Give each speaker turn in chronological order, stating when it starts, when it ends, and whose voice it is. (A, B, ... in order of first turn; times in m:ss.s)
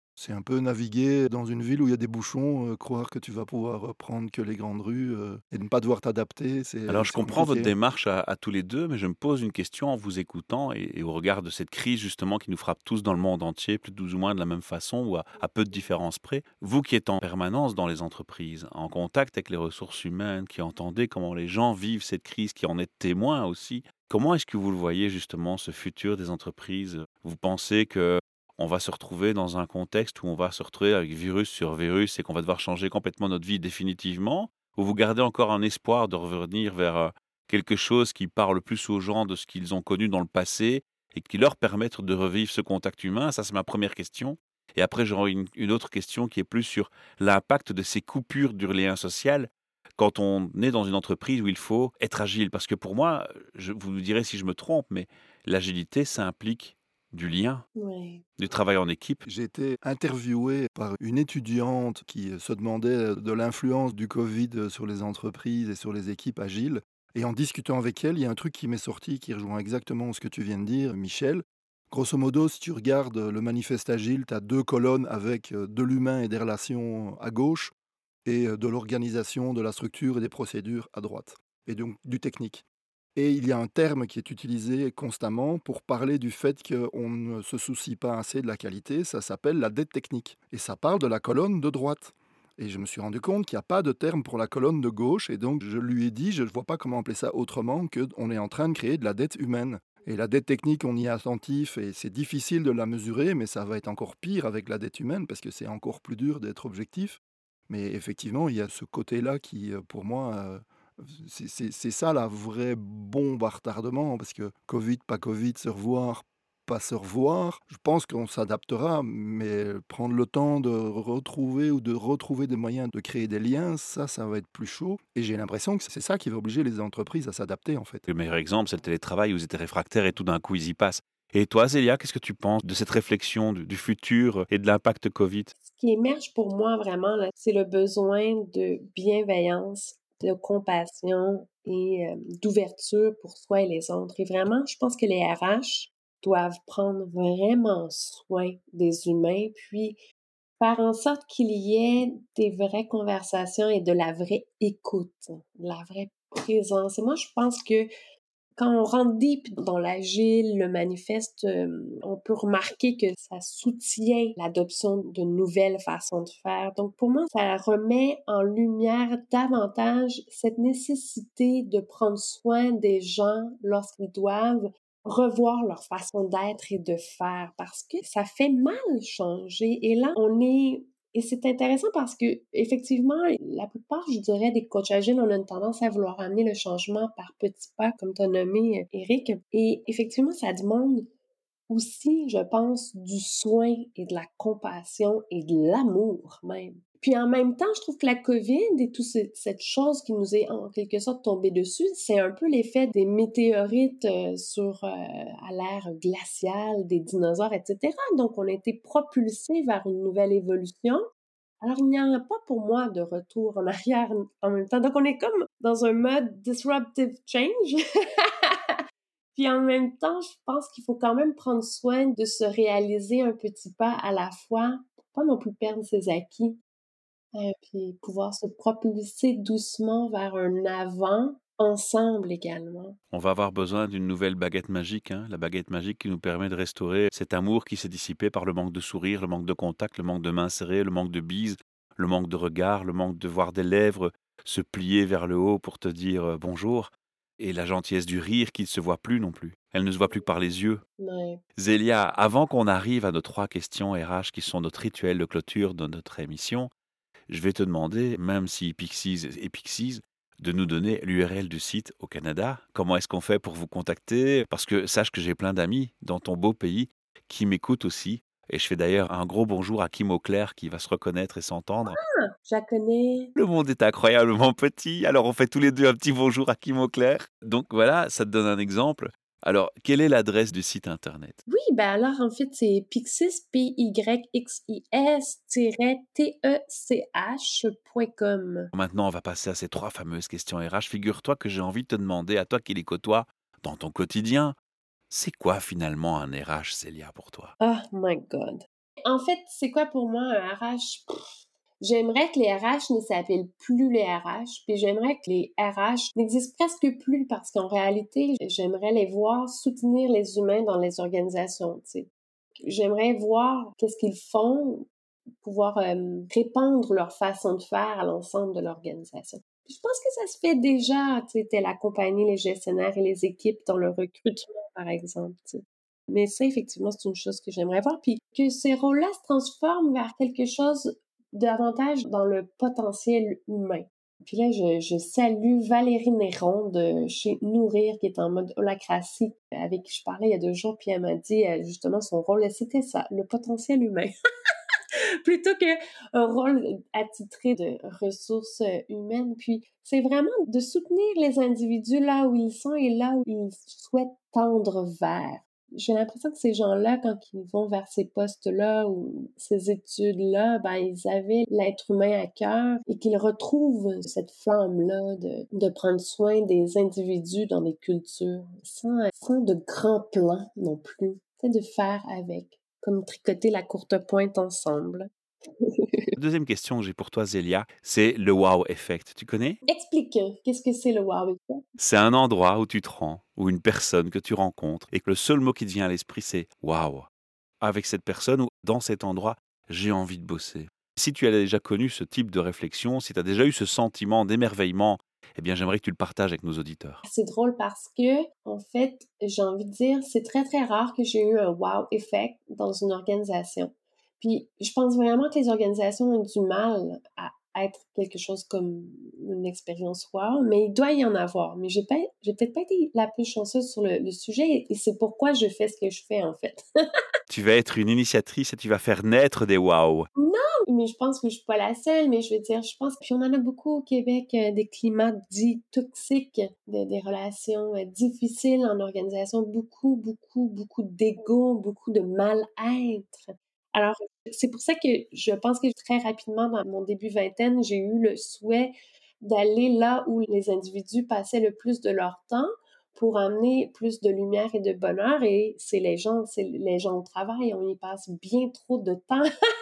0:00.2-0:07.7 A
0:06.9-0:57.6 B
0:57.8-0:58.2 C
0:58.4-0:59.2 B
0:59.2-1:17.7 A
1:18.2-1:22.6 A
1:23.2-2:08.0 A
2:08.1-2:15.5 B
2:15.6-2:30.0 C
2:30.6-2:37.9 C
2:38.6-3:11.0 C
3:11.7-3:31.0 C
3:31.6-3:38.8 C
3:39.3-3:46.6 C
3:47.3-3:53.0 C
3:53.1-4:10.8 B
4:11.0-4:11.4 C
4:11.6-4:16.7 B
4:17.3-4:32.0 B
4:31.9-4:33.3 C
4:33.4-4:41.4 B
4:41.5-4:48.7 C
4:48.7-4:54.5 B
4:55.1-4:57.5 B
4:57.6-5:01.0 C
5:01.8-5:12.1 C
5:12.6-5:14.9 C
5:15.4-5:44.1 C
5:45.2-6:15.1 C
6:15.6-6:16.1 C
6:16.2-6:19.6 B
6:19.7-6:21.6 C
6:21.8-6:27.1 B
6:27.6-6:37.0 B
6:37.0-6:56.6 C
6:57.3-7:00.1 B
7:00.2-7:29.3 C